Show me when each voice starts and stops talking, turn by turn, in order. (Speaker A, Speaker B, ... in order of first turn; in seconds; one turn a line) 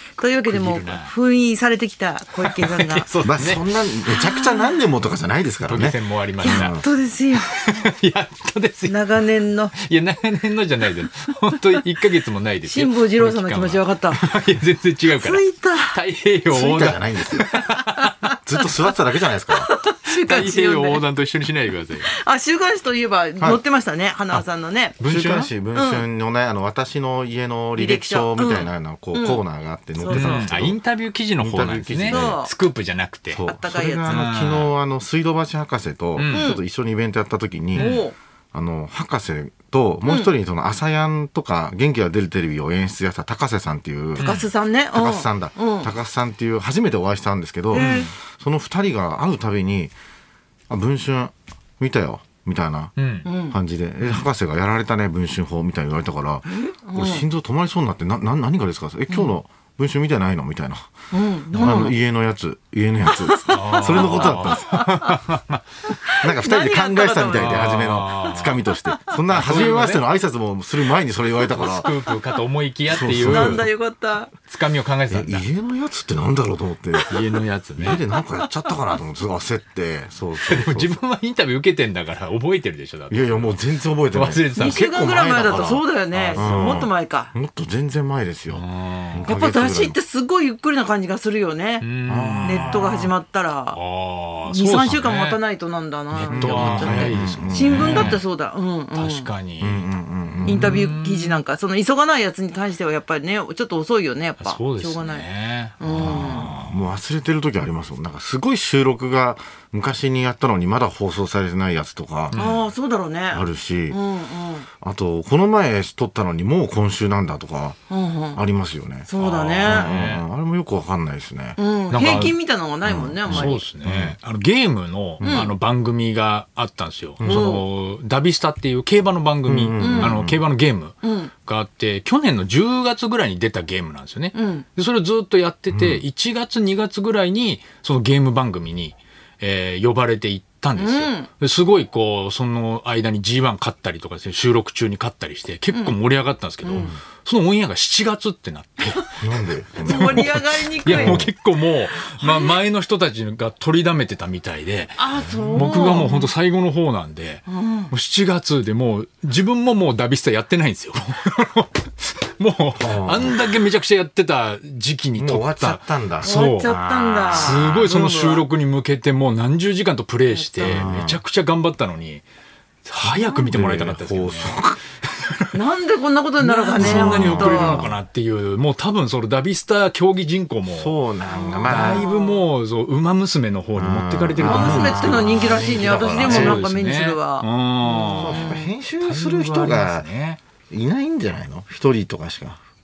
Speaker A: 0.2-3.1
Speaker B: 0.5-1.1
Speaker B: 2.4-3.7
Speaker C: 3.2-6.8
Speaker A: 4.1-4.8
Speaker B: 5.6-6.8
Speaker A: 6.4-7.9
Speaker B: 7.5-9.2
Speaker A: 8.9-9.8
Speaker B: 9.8-18.1
Speaker A: 12.6-14.2
Speaker A: 15.2-16.0
Speaker C: 16.5-17.5
Speaker A: 17.5-18.6
Speaker C: 18.5-19.7
Speaker A: 19.5-21.0
Speaker B: 20.1-22.1
Speaker A: 22.1-25.0
Speaker B: 25.0-25.5
Speaker C: 25.0-30.8
Speaker A: 25.7-26.1
Speaker A: 27.8-29.4
Speaker A: 30.0-30.6
Speaker B: 30.1-33.4
Speaker C: 31.4-32.4
Speaker A: 32.0-32.5
Speaker C: 33.3-38.0
Speaker A: 33.5-34.2
Speaker B: 34.1-34.7
Speaker B: 36.2-36.5
Speaker A: 36.3-36.6
Speaker B: 37.8-38.0
Speaker A: 37.8-38.2
Speaker C: 38.5-44.3
Speaker A: 40.0-40.3
Speaker B: 44.2-44.5
Speaker A: 44.2-45.9
Speaker C: 44.9-49.9
Speaker A: 47.7-48.1
Speaker B: 47.7-48.1
Speaker C: 50.7-52.9
Speaker B: 53.0-53.3
Speaker A: 53.2-53.6
Speaker C: 53.5-60.9
Speaker A: 56.5-57.2
Speaker A: 61.1-61.9
Speaker B: 61.5-61.9
Speaker C: 61.6-64.8
Speaker A: 63.1-65.1
Speaker B: 63.5-65.6
Speaker A: 65.9-67.8
Speaker C: 66.2-71.9
Speaker B: 67.3-68.5
Speaker B: 69.3-70.0
Speaker B: 71.5-73.7
Speaker C: 72.9-73.7
Speaker A: 73.3-74.3
Speaker B: 74.5-75.4
Speaker C: 75.1-77.1
Speaker B: 77.1-78.0
Speaker C: 77.8-81.0
Speaker A: 78.2-78.7
Speaker B: 80.4-83.6
Speaker C: 83.1-90.0
Speaker B: 84.1-85.0
Speaker A: 84.6-87.3
Speaker B: 86.2-86.8
Speaker B: 88.5-89.3
Speaker A: 89.3-91.9
Speaker B: 91.8-93.1
Speaker C: 92.1-92.8
Speaker A: 92.4-93.8
Speaker B: 93.7-95.4
Speaker A: 94.5-99.3
Speaker B: 96.1-98.2
Speaker C: 96.2-98.2
Speaker B: 98.9-101.4
Speaker C: 99.6-100.8
Speaker A: 100.5-105.3
Speaker B: 104.4-106.8
Speaker A: 105.8-106.5
Speaker C: 105.9-112.4
Speaker B: 112.3-112.7
Speaker A: 112.4-114.7
Speaker C: 113.3-114.0
Speaker C: 114.8-117.8
Speaker A: 117.9-118.4
Speaker C: 118.3-119.1
Speaker A: 119.1-119.9
Speaker B: 119.2-120.2
Speaker C: 119.6-121.6
Speaker A: 121.6-123.6
Speaker B: 121.9-122.4
Speaker C: 122.8-124.2
Speaker B: 123.3-149.2
Speaker C: 125.2-125.5
Speaker A: 125.2-125.5
Speaker C: 127.2-127.5
Speaker A: 127.2-127.7
Speaker C: 129.5-130.4
Speaker A: 129.8-130.2
Speaker A: 131.0-131.3
Speaker A: 134.3-134.7
Speaker C: 135.7-136.0
Speaker A: 140.8-141.3
Speaker A: 145.7-146.0
Speaker A: 146.6-146.9
Speaker C: 146.7-147.0
Speaker C: 149.2-150.2
Speaker B: 149.7-166.7
Speaker A: 149.8-151.3
Speaker C: 150.9-151.3
Speaker A: 152.2-152.6
Speaker A: 155.0-156.3
Speaker C: 155.2-155.7
Speaker A: 157.5-157.9
Speaker C: 162.8-163.4
Speaker C: 165.2-167.9
Speaker A: 166.2-168.5
Speaker B: 167.3-172.2
Speaker A: 170.3-170.9
Speaker C: 170.6-171.2
Speaker B: 172.8-175.4
Speaker C: 173.0-174.8
Speaker A: 175.5-177.8
Speaker B: 176.4-181.0
Speaker C: 176.8-177.9
Speaker C: 180.7-182.1
Speaker A: 181.3-182.4
Speaker B: 181.6-190.4
Speaker C: 183.8-186.7
Speaker A: 184.4-188.7
Speaker C: 188.2-190.1
Speaker C: 190.7-192.6